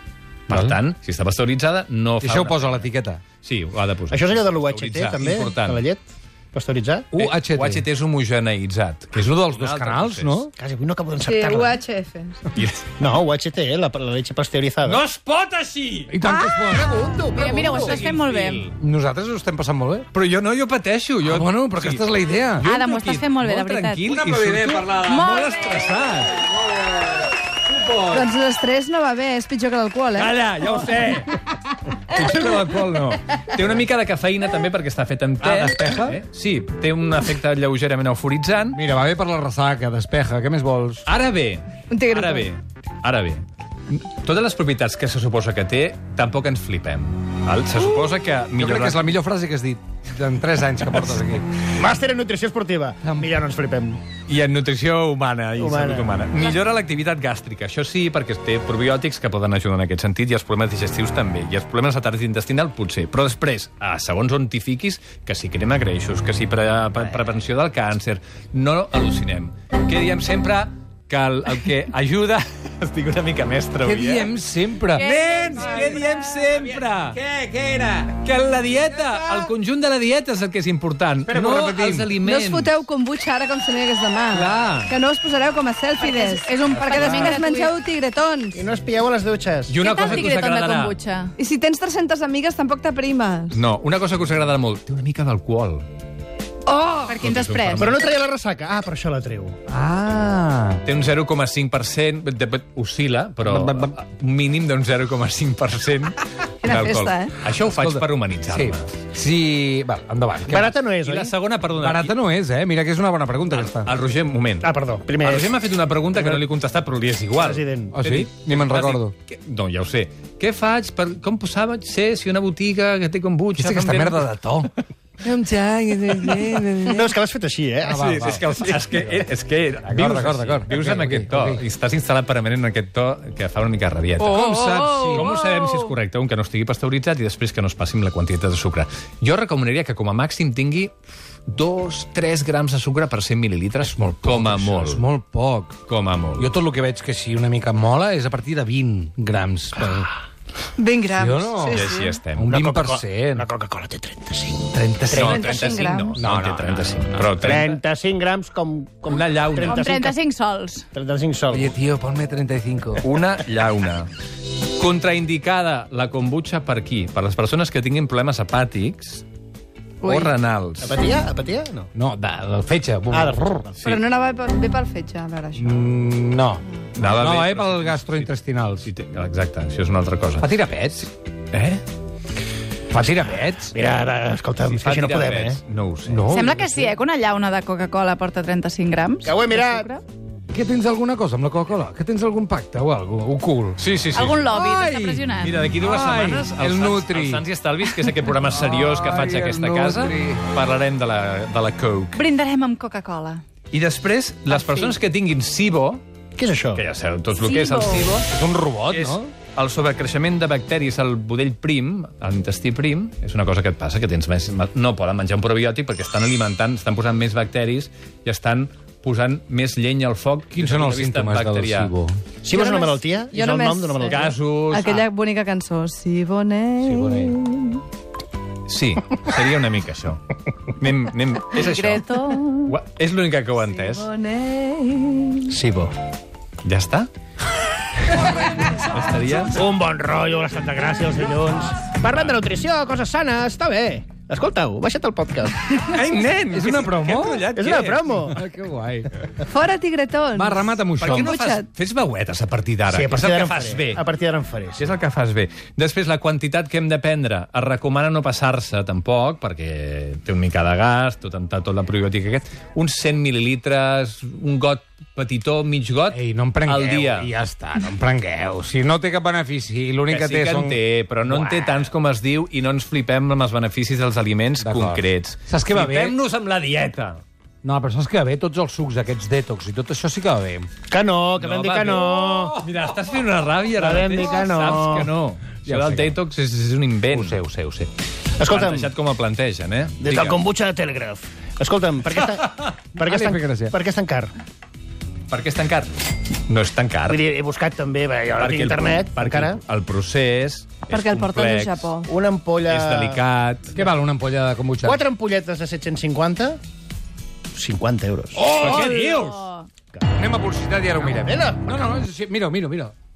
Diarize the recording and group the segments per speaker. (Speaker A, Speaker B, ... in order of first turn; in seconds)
Speaker A: 0.5-0.8, 2.2-3.2, 7.1-7.8, 9.1-10.5, 16.1-17.0, 18.8-20.1, 21.2-22.7, 24.1-25.5, 26.7-28.3, 32.7-33.1, 35.4-36.2, 38.7-41.1, 48.5-51.5, 73.8-78.2, 81.3-82.1, 99.7-100.8, 103.4-104.0, 107.7-110.7, 111.8-113.9, 117.9-119.1, 123.6-124.7, 125.2-127.1, 127.8-128.4, 129.9-131.6, 134.2-135.3, 143.9-145.8, 146.4-150.1, 151.2-153.5, 154.7-155.5, 156.2-156.8, 161.5-163.1, 171.9-173.4, 175.6-178.9, 180.4-181.1, 182.9-183.7, 186.1-186.9, 190.5-193.8, 194.5-195.3, 195.8-197.4, 198.5-200.4, 208.3-209.3, 220.6-222.2, 226.8-227.4, 246.5-247.5, 248.2-249.1, 250.4-251.3, 266.1-271.9, 274.6-276.1, 277.6-280.7, 285.7-286.2, 287.1-287.5, 293.0-293.7, 303.8-305.0, 308.4-309.3, 310.2-312.9
Speaker B: 0.5-2.9, 3.4-5.9, 7.2-10.5, 12.5-12.9, 14.8-16.1, 17.4-18.7, 20.1-22.1, 22.6-26.4, 30.2-31.4, 32.0-38.8, 41.1-49.1, 54.3-74.3, 74.9-77.2, 78.2-82.7, 84.3-84.9, 86.8-87.2, 89.7-91.0, 93.5-95.9, 97.2-98.0, 100.8-109.0, 110.5-112.1, 113.5-124.3, 128.0-134.5, 135.1-140.9, 141.5-145.0, 145.9-146.5, 151.7-152.5, 155.1-157.8, 159.1-159.8, 163.0-164.1, 164.8-169.2, 170.0-171.0, 176.9-178.3, 178.8-180.5, 181.5-181.8, 184.7-186.3, 193.8-194.4, 195.4-202.2, 203.7-206.0, 206.8-208.3, 208.9-221.9, 224.1-225.1, 228.7-232.0, 232.7-234.1, 236.6-237.1, 238.8-239.6, 242.1-242.4, 245.8-248.0, 251.0-254.0, 254.7-267.3, 270.1-277.2, 281.4-290.4, 295.3-295.9, 296.5-297.2, 298.4-301.9, 302.7-303.8, 308.4-309.4
Speaker C: 4.1-7.1, 10.6-11.8, 13.0-15.0, 16.7-18.0, 51.1-54.0, 55.6-56.3, 88.5-90.3, 97.8-99.6, 110.5-111.3, 114.6-115.6, 116.1-116.4, 117.3-118.0, 126.9-128.8, 152.5-155.8, 157.4-160.2, 160.9-161.7, 170.8-171.9, 173.1-173.7, 183.7-185.6, 189.2-189.9, 206.4-206.8, 222.4-224.3, 235.5-235.9, 239.5-245.8, 247.5-248.4, 252.9-254.9, 280.9-282.6, 283.8-285.1, 288.4-288.9, 290.0-294.3, 297.1-299.6, 302.1-303.2, 304.8-306.6, 307.5-308.4, 310.9-311.9
Speaker D: 11.2-12.4, 16.2-16.8, 28.1-30.3, 41.9-42.5, 82.2-88.6, 91.4-93.6, 96.7-97.2, 106.6-107.4, 134.5-135.4, 150.8-152.2, 155.3-156.2, 173.8-175.9, 222.5-227.8, 233.7-235.5, 249.5-251.7, 300.9-302.1
Speaker E: 17.3-18.7, 22.6-24.1, 25.1-25.5, 75.0-76.4, 86.0-87.7, 89.8-91.3, 97.1-98.0, 159.6-160.9, 186.3-190.0, 194.1-195.6, 202.1-203.4, 204.5-205.0, 207.4-208.2, 231.5-232.7, 308.8-309.7